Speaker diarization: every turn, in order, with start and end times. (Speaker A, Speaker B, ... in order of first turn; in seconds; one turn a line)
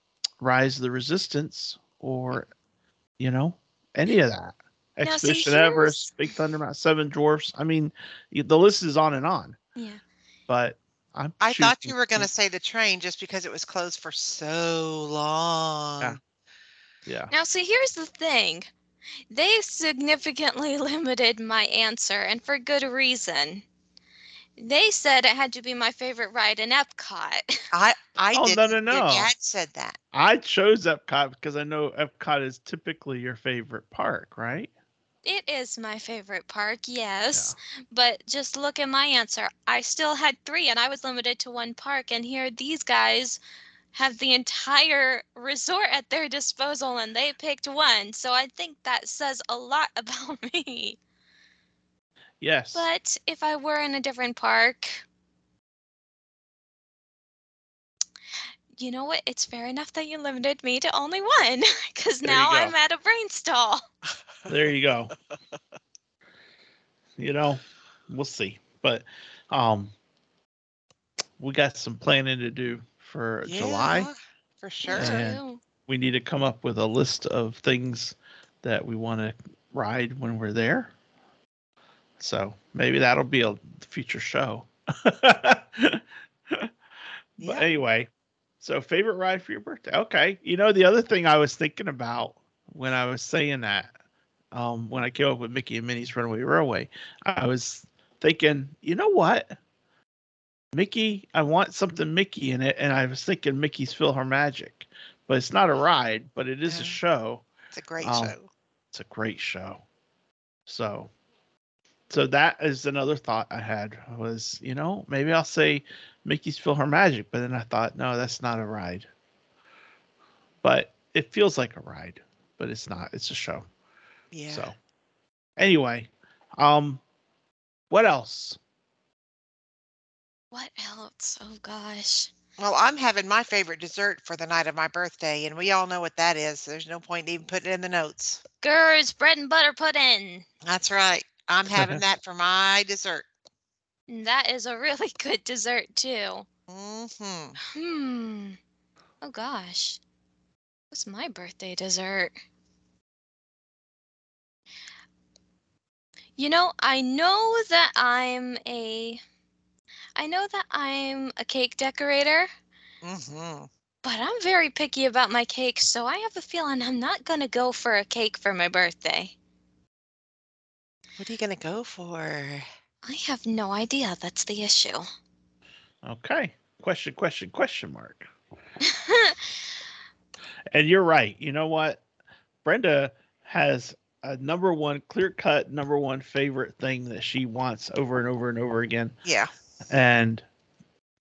Speaker A: 0.4-2.5
Speaker A: 3.2-9.6
Speaker B: 5.0-6.1
Speaker B: 9.8-10.0
Speaker A: 10.5-12.3
Speaker C: 11.4-16.2
Speaker A: 17.1-17.3
Speaker B: 17.3-18.7
Speaker B: 19.3-23.6
Speaker B: 24.6-27.4
Speaker C: 27.7-30.0
Speaker A: 28.3-29.3
Speaker A: 30.1-34.7
Speaker B: 35.2-43.4
Speaker B: 43.9-51.0
Speaker A: 52.4-52.9
Speaker B: 52.7-55.0
Speaker B: 58.8-63.8
Speaker A: 62.2-62.7
Speaker A: 64.5-65.1
Speaker A: 67.2-69.9
Speaker A: 71.4-74.1
Speaker C: 73.4-75.2
Speaker B: 74.8-75.6
Speaker A: 74.9-80.9
Speaker A: 82.2-86.7
Speaker A: 87.4-93.9
Speaker C: 87.4-87.7
Speaker A: 94.5-99.5
Speaker A: 100.7-107.5
Speaker C: 106.7-107.0
Speaker C: 107.7-108.5
Speaker A: 108.0-108.3
Speaker A: 108.9-109.8
Speaker A: 110.7-111.1
Speaker A: 112.1-119.1
Speaker A: 120.6-123.7
Speaker C: 124.3-124.7
Speaker A: 124.5-124.8
Speaker A: 125.6-127.0
Speaker A: 127.9-128.6
Speaker B: 130.5-132.3
Speaker C: 132.6-138.4
Speaker B: 138.6-140.4
Speaker C: 140.6-143.3
Speaker A: 141.7-142.0
Speaker B: 144.1-146.5
Speaker C: 146.7-147.6
Speaker B: 147.7-148.6
Speaker B: 149.2-150.0
Speaker B: 150.9-152.3
Speaker B: 156.4-159.2
Speaker B: 160.2-162.5
Speaker C: 163.0-163.7
Speaker B: 164.0-169.3
Speaker C: 171.2-172.7
Speaker B: 173.0-175.1
Speaker A: 176.0-178.3
Speaker B: 178.8-179.5
Speaker A: 180.7-182.0
Speaker A: 182.6-189.1
Speaker C: 189.2-189.5
Speaker A: 189.9-190.4